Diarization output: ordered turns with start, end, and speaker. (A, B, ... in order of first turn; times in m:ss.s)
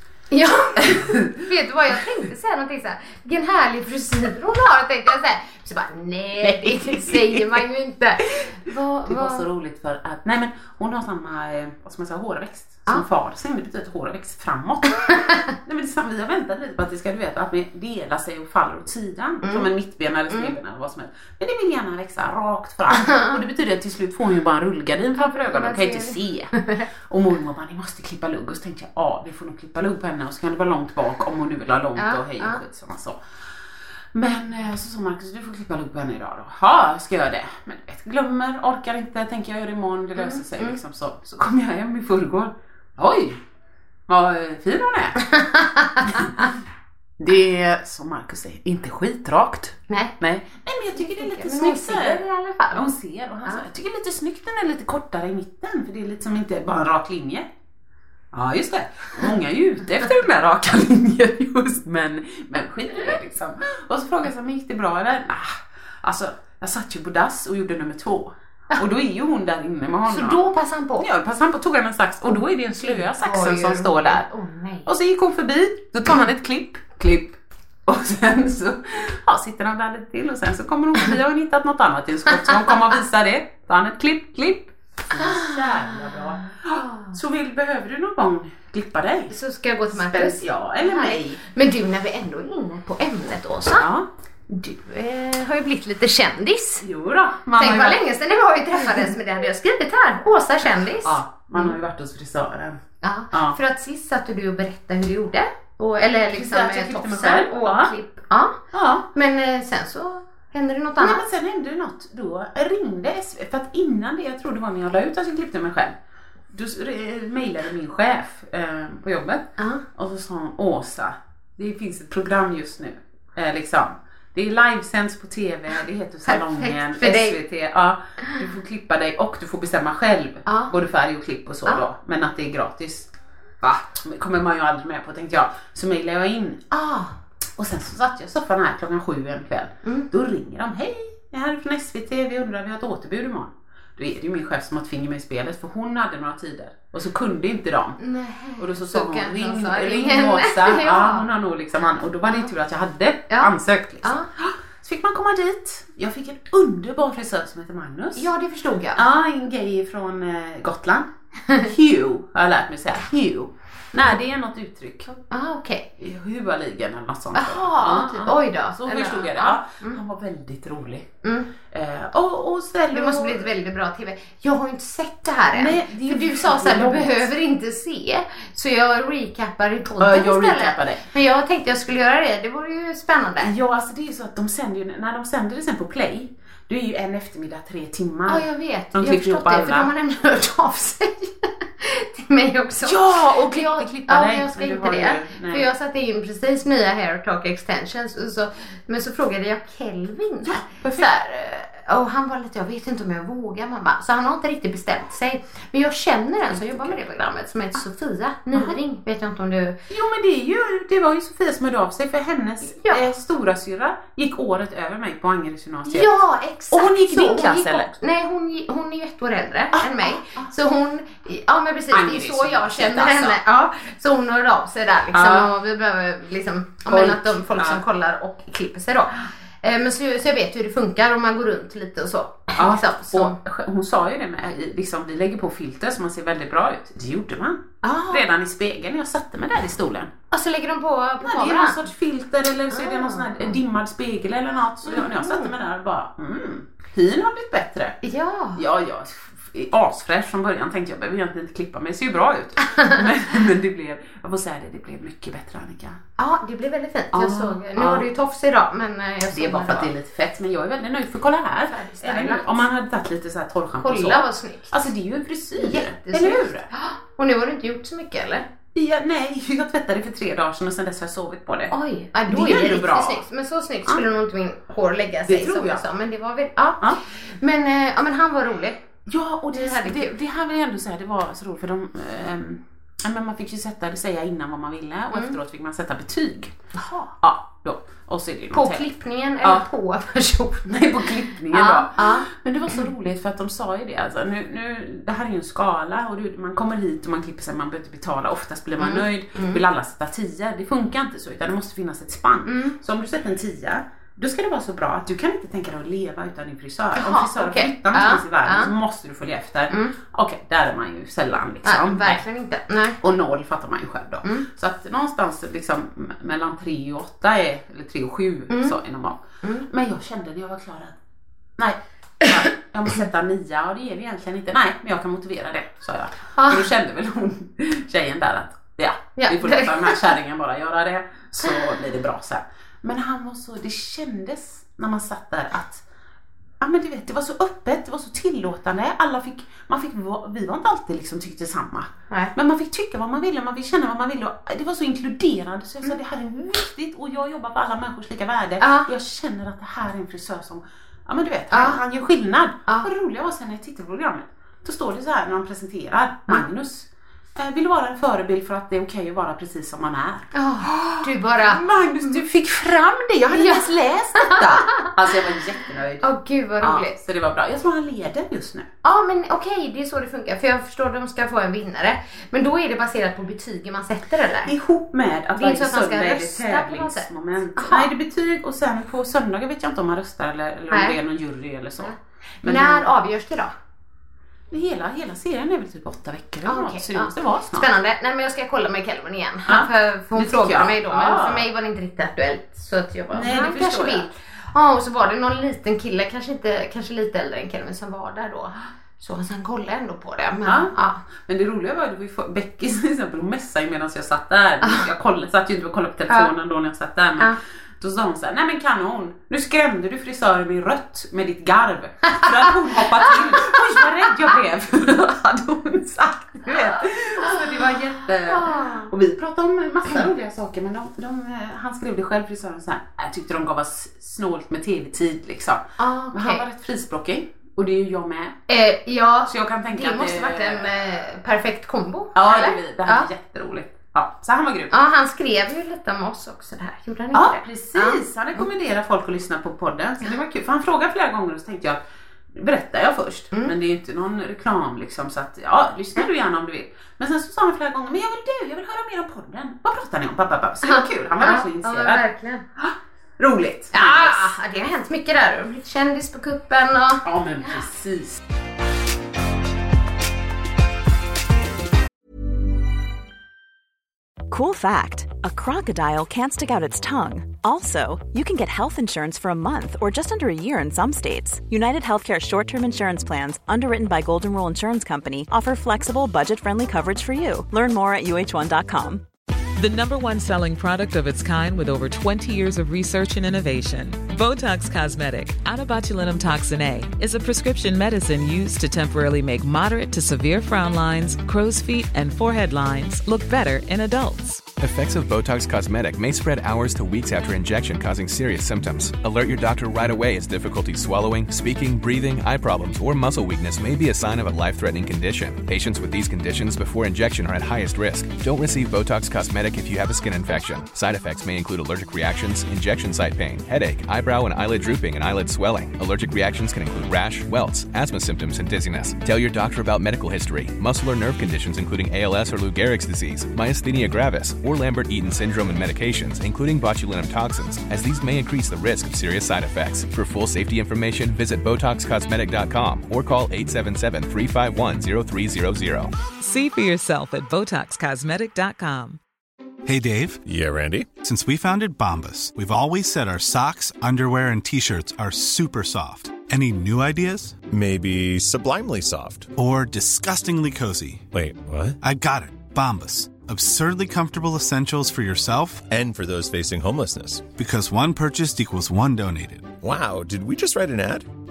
0:00.3-0:09.5 A
0:00.8-0:01.4 B
0:06.4-0:07.6 B
0:09.1-0:26.5 B
0:19.4-0:19.7 A
0:23.0-0:23.4 A
0:25.4-0:26.9 A
0:27.1-0:33.2 B
0:32.0-0:32.6 A
0:34.1-0:43.4 B
0:40.2-0:40.8 A
0:44.1-0:45.3 B
0:45.4-0:46.1 A
0:46.0-0:46.3 B
0:47.2-0:57.5 B
0:49.9-0:50.2 A
0:51.0-0:52.9 A
0:58.3-1:10.4 B
1:10.1-1:11.1 A
1:11.0-1:14.3 B
1:12.8-1:14.9 A
1:14.9-1:29.3 B
1:25.2-1:27.2 A
1:29.3-1:33.9 A
1:29.9-1:31.4 B
1:33.8-1:34.1 B
1:34.5-1:36.8 A
1:36.8-1:38.0 B
1:37.6-1:41.8 A
1:38.7-1:39.1 B
1:41.0-1:42.8 B
1:43.0-1:48.6 A
1:43.3-1:43.6 B
1:46.3-1:47.9 B
1:48.7-1:49.1 B
1:49.1-1:51.2 A
1:51.0-1:56.0 B
1:56.5-2:13.1 B
1:59.6-1:59.8 A
2:06.3-2:07.4 A
2:10.5-2:10.7 A
2:13.6-2:16.7 B
2:16.7-2:17.2 A
2:17.6-2:28.0 B
2:19.8-2:20.1 A
2:28.0-2:31.3 A
2:28.6-2:38.3 B
2:34.0-2:34.3 A
2:38.2-2:39.0 A
2:39.0-2:45.2 B
2:45.3-2:45.9 A
2:46.0-2:51.1 B
2:47.3-2:50.0 A
2:51.7-2:53.5 B
2:52.9-3:03.5 A
2:55.5-2:57.3 B
3:00.0-3:01.0 B
3:03.4-3:09.9 B
3:08.3-3:29.8 A
3:12.8-3:15.7 B
3:20.4-3:21.1 B
3:26.5-3:27.0 B
3:29.9-3:36.2 B
3:32.7-3:33.0 A
3:35.9-3:53.4 A
3:36.7-3:37.9 B
3:39.7-3:40.5 B
3:41.9-3:43.4 B
3:45.1-3:45.5 B
3:46.9-3:47.8 B
3:52.6-4:00.1 B
3:57.8-3:58.3 A
4:00.3-4:01.8 A
4:01.2-4:08.0 B
4:02.7-4:03.6 A
4:04.8-4:05.5 A
4:08.0-4:08.6 A
4:08.6-4:16.0 B
4:12.7-4:13.0 A
4:16.2-4:19.9 A
4:17.1-4:18.1 B
4:19.3-4:26.7 B
4:21.7-4:22.6 A
4:23.8-4:24.8 A
4:25.6-4:28.4 A
4:28.8-4:33.2 B
4:31.7-4:38.8 A
4:35.3-4:35.8 B
4:39.1-4:46.6 B
4:39.5-4:40.1 A
4:45.1-4:45.4 A
4:46.8-4:47.1 A
4:47.2-4:48.9 B
4:48.5-4:50.8 A
4:49.4-4:49.7 B
4:50.7-5:12.2 B
4:51.5-4:52.8 A
4:58.8-4:59.6 A
5:02.5-5:02.8 A
5:07.0-5:08.7 A
5:11.6-5:13.0 A
5:13.0-5:21.0 B
5:18.5-5:18.8 A
5:21.6-5:35.8 B
5:26.4-5:26.7 A
5:29.2-5:30.1 A
5:36.6-6:06.1 B
5:48.6-5:48.9 A
5:51.5-5:51.8 A
6:00.3-6:02.2 A
6:03.3-6:03.7 A
6:04.2-6:04.9 A
6:06.0-6:07.0 A
6:06.6-6:08.7 B
6:08.8-6:14.5 A
6:14.4-6:22.9 B
6:15.4-6:17.9 A
6:20.7-6:21.0 A
6:21.8-6:23.5 A
6:24.5-6:27.7 B
6:26.4-6:41.0 A
6:29.5-6:31.5 B
6:33.1-6:34.1 B
6:40.4-6:40.7 B
6:41.2-7:08.4 B
6:53.0-6:53.6 A
6:58.3-6:58.9 A
7:05.8-7:06.4 A
7:08.5-7:13.1 A
7:09.2-7:10.7 B
7:12.2-7:14.7 B
7:14.7-7:18.0 A
7:17.1-7:21.8 B
7:22.3-7:32.0 B
7:30.6-7:32.4 A
7:32.6-7:34.3 B
7:33.7-7:37.0 A
7:37.0-7:38.2 B
7:44.3-7:59.1 C
7:59.6-8:14.5 D
8:14.6-8:55.9 E
8:56.2-8:59.0 D
8:59.7-9:00.2 F
9:00.3-9:00.9 G
9:01.0-9:07.4 F
9:07.5-9:09.3 G
9:09.4-9:11.0 F
9:11.1-9:11.8 G
9:11.8-9:15.6 F
9:15.7-9:17.2 G
9:17.4-9:19.5 F
9:19.6-9:21.1 G